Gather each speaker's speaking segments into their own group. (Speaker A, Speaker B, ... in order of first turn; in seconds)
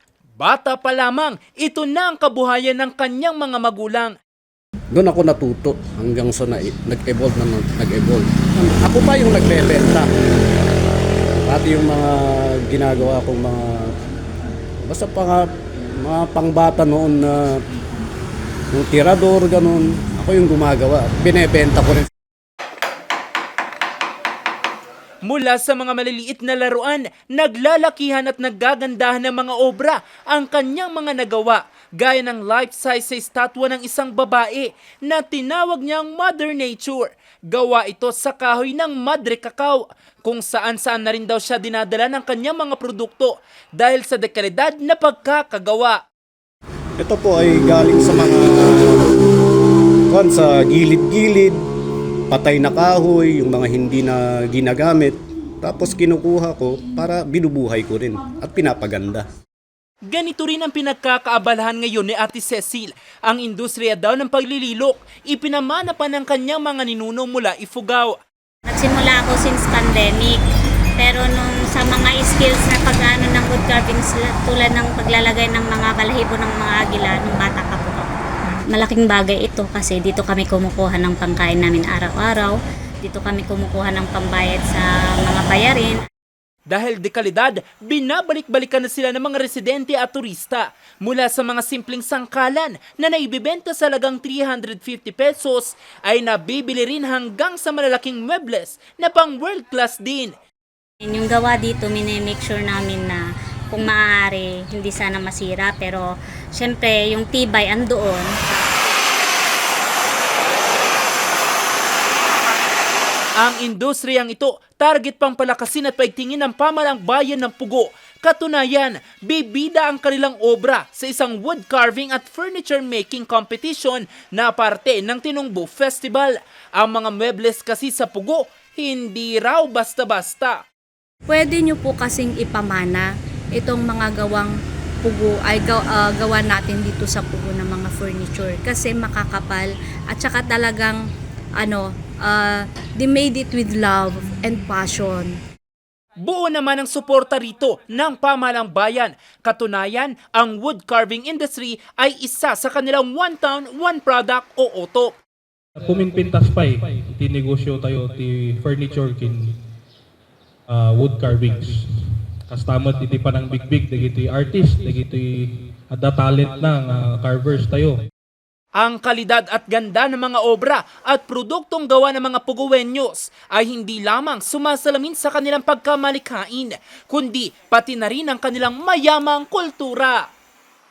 Speaker A: 0.4-4.2, 25.2-46.0, 60.1-68.2, 86.7-100.3, 113.4-130.6, 146.2-155.2, 168.8-180.3
Speaker B: 4.9-10.1, 11.4-13.9, 14.9-15.5, 16.0-17.6, 18.7-22.1, 47.0-49.1, 50.1-51.6, 52.3-59.3
Speaker C: 68.7-70.4, 71.0-78.1, 78.7-86.0, 101.0-108.7
Speaker D: 131.3-141.0, 141.6-145.3
Speaker E: 155.8-159.4, 160.7-161.8, 162.5-168.0